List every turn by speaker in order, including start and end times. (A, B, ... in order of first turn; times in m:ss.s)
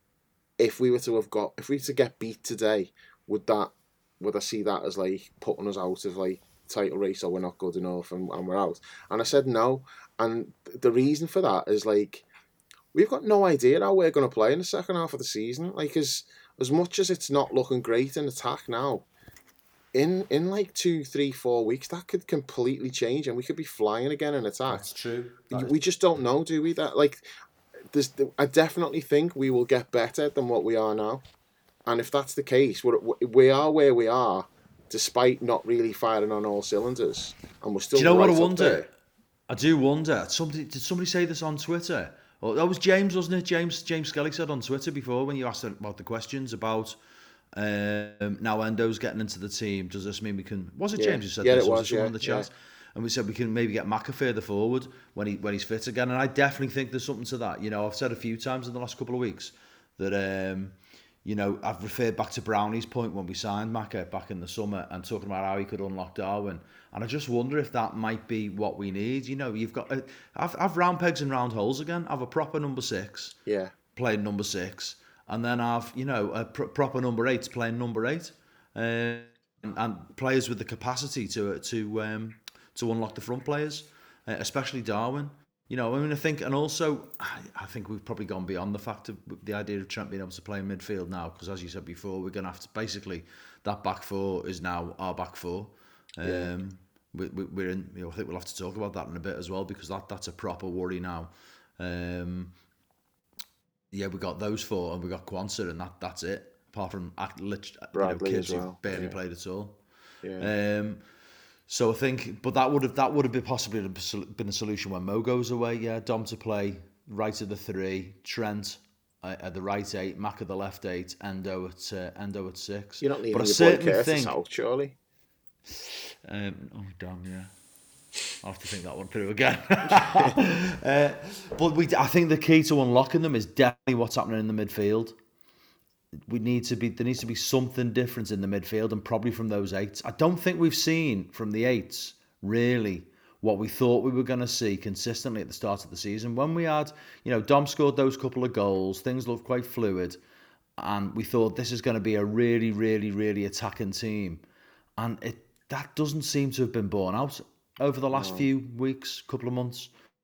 0:00.6-0:12.3 A
0:12.9-0:19.1 A
0:19.9-0:24.9 A
0:24.7-0:25.8 B
0:25.5-0:27.2 A
0:27.9-0:31.2 A
0:31.9-0:38.9 A
0:37.9-0:38.9 B
0:39.5-0:47.0 B
0:47.5-1:13.4 B
0:51.0-0:52.5 A
1:13.5-1:13.7 A
1:14.0-1:42.5 B
1:36.2-1:36.5 A
1:43.9-1:49.8 B
1:47.9-1:49.2 A
1:50.2-1:50.5 A
1:50.4-1:51.0 B
1:51.7-2:04.4 B
2:03.0-2:05.0 A
2:05.8-2:07.5 B
2:08.4-2:15.2 B
2:10.0-2:10.4 A
2:16.3-2:30.2 B
2:30.8-2:34.4 B
2:35.0-2:39.9 B
2:38.1-2:38.5 A